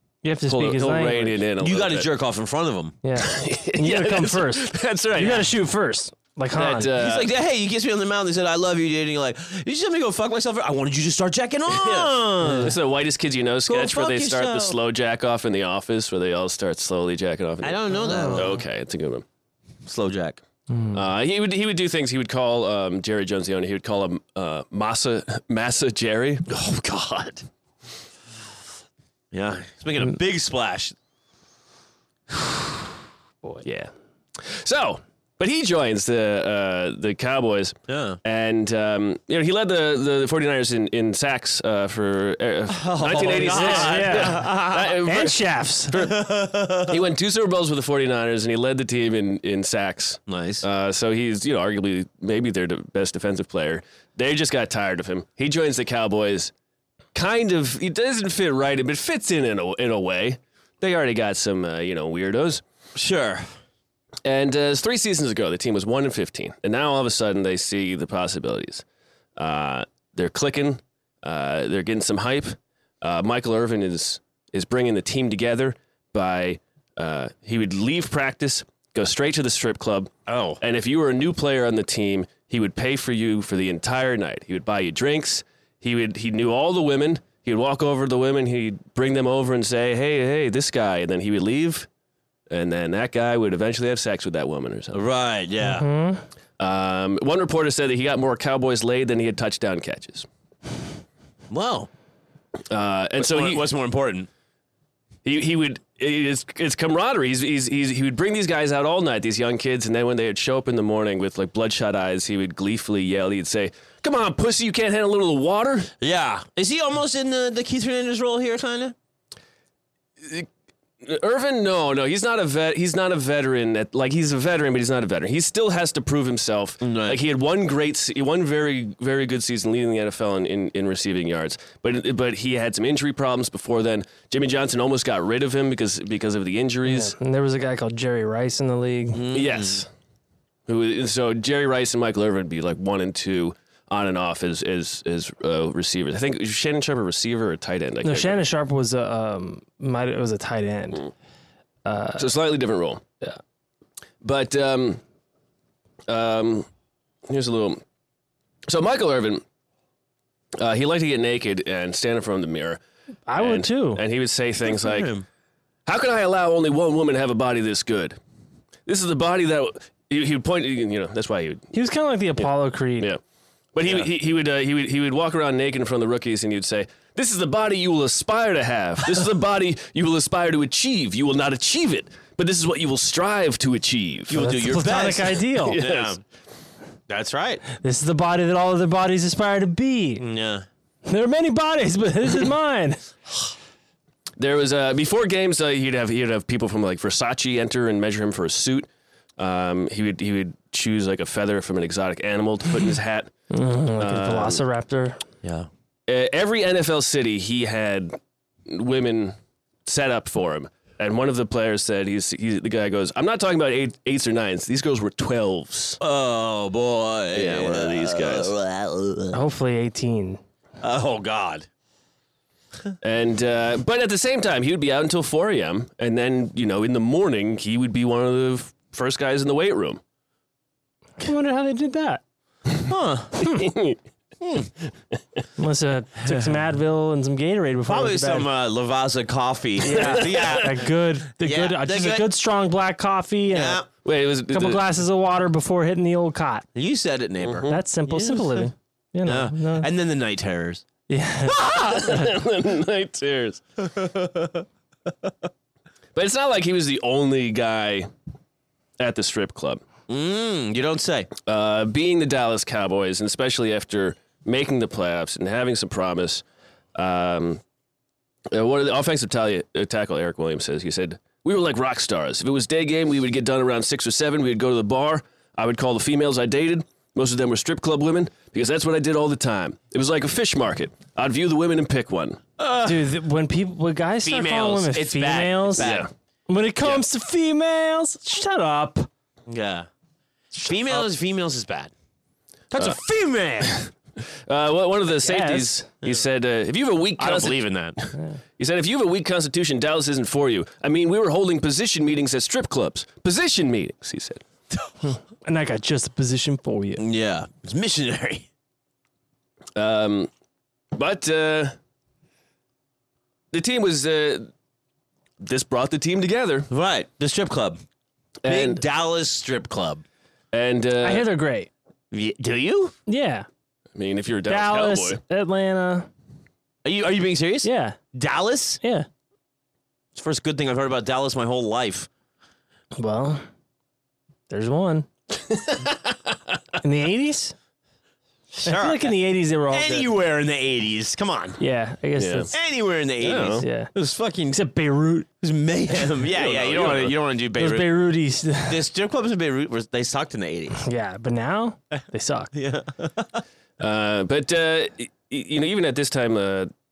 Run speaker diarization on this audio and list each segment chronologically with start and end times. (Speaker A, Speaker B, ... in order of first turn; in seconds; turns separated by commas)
Speaker A: 0.2-1.4, Speaker B: 0.5-2.1, Speaker C: 1.6-3.0, Speaker A: 3.0-4.7, Speaker B: 3.2-5.5, Speaker A: 5.2-6.9, Speaker B: 6.5-7.3, Speaker C: 7.0-12.8, Speaker B: 11.7-19.2, Speaker C: 13.7-14.8, Speaker C: 17.6-18.6, Speaker A: 17.9-18.5, Speaker C: 19.9-20.4, Speaker A: 20.7-21.0, Speaker B: 20.9-26.5, Speaker C: 26.5-27.4, Speaker C: 29.3-30.9, Speaker B: 33.6-45.4, Speaker C: 37.9-38.2, Speaker C: 42.7-44.9, Speaker A: 43.1-46.0, Speaker B: 45.9-46.2, Speaker C: 45.9-47.0, Speaker B: 46.8-56.5, Speaker C: 50.3-50.6, Speaker B: 57.1-62.6, Speaker C: 63.0-63.5, Speaker B: 64.2-68.8, Speaker B: 69.4-91.9, Speaker C: 80.3-80.6, Speaker B: 92.5-95.0, Speaker C: 94.9-95.9, Speaker A: 95.6-96.2, Speaker B: 96.6-100.3, Speaker C: 101.5-101.9, Speaker B: 102.7-103.7, Speaker C: 103.2-104.3, Speaker B: 105.2-115.9, Speaker C: 116.0-119.0, Speaker B: 120.2-120.5, Speaker B: 121.0-137.1, Speaker C: 126.8-127.2, Speaker A: 136.9-139.2, Speaker C: 139.1-139.8, Speaker B: 139.3-139.9, Speaker B: 140.7-148.4, Speaker A: 148.0-151.1, Speaker A: 151.8-152.3, Speaker B: 152.2-153.0, Speaker B: 154.2-155.0, Speaker B: 156.1-156.7, Speaker B: 157.3-157.8, Speaker B: 158.7-159.4, Speaker B: 160.6-162.8, Speaker A: 163.3-164.0, Speaker B: 163.4-165.1, Speaker C: 164.7-165.3, Speaker B: 165.9-168.2, Speaker B: 168.9-171.7, Speaker A: 171.7-173.1, Speaker B: 173.7-184.4, Speaker C: 184.3-186.2, Speaker A: 184.3-185.8, Speaker B: 185.7-186.2, Speaker C: 187.1-187.6, Speaker A: 187.8-190.2, Speaker C: 190.2-190.7, Speaker A: 191.1-193.1, Speaker B: 194.4-203.3, Speaker A: 203.5-205.2, Speaker B: 204.0-204.6, Speaker C: 205.4-205.7, Speaker B: 206.1-216.0, Speaker C: 216.0-219.4, Speaker B: 217.3-218.5, Speaker A: 219.3-220.4, Speaker C: 220.8-221.7, Speaker B: 223.0-230.0, Speaker A: 231.2-232.2, Speaker C: 232.9-233.4, Speaker B: 233.4-234.0, Speaker A: 235.6-238.5, Speaker C: 237.9-242.3, Speaker A: 239.8-243.8, Speaker B: 240.0-240.4, Speaker C: 243.5-243.9, Speaker B: 244.0-244.8, Speaker A: 244.5-246.7, Speaker C: 246.8-248.7, Speaker B: 247.4-247.8, Speaker A: 247.7-249.9, Speaker C: 249.3-250.8, Speaker A: 251.1-252.3, Speaker B: 251.5-253.8, Speaker C: 254.0-254.5, Speaker B: 256.1-258.1, Speaker B: 259.0-259.8, Speaker C: 260.1-261.3, Speaker B: 261.4-266.4, Speaker B: 266.9-267.6, Speaker B: 268.5-282.4, Speaker C: 282.6-283.1, Speaker A: 282.8-285.9, Speaker C: 284.2-286.1, Speaker B: 285.8-286.1, Speaker A: 286.5-289.1, Speaker C: 289.5-289.9, Speaker C: 290.6-291.9, Speaker C: 292.7-293.9, Speaker B: 294.5-304.4, Speaker A: 295.2-295.9, Speaker C: 297.2-298.0, Speaker A: 305.0-307.0, Speaker C: 307.0-308.5, Speaker B: 309.8-310.3, Speaker B: 310.9-311.8, Speaker B: 313.5-314.5, Speaker B: 315.4-316.7, Speaker C: 316.7-317.8, Speaker B: 318.4-318.8, Speaker C: 318.5-320.0, Speaker B: 320.5-321.3, Speaker A: 321.0-321.7, Speaker C: 322.1-322.9, Speaker A: 323.1-323.5, Speaker B: 323.9-325.2, Speaker A: 324.5-326.1, Speaker C: 326.8-328.8, Speaker A: 327.6-328.0, Speaker A: 328.8-329.1, Speaker C: 330.1-332.1, Speaker A: 333.0-333.4, Speaker A: 334.5-335.1, Speaker B: 335.5-336.0, Speaker A: 336.8-337.6, Speaker C: 338.6-339.1, Speaker A: 338.6-340.1, Speaker C: 339.7-341.6, Speaker A: 341.6-342.5, Speaker B: 342.2-342.5, Speaker C: 342.5-344.6, Speaker B: 343.2-343.7, Speaker A: 343.6-343.9, Speaker A: 344.5-345.3, Speaker C: 345.4-348.0, Speaker B: 346.3-347.2, Speaker A: 347.6-348.8, Speaker C: 348.6-350.8, Speaker A: 350.8-352.5, Speaker C: 352.5-353.4, Speaker B: 353.8-356.7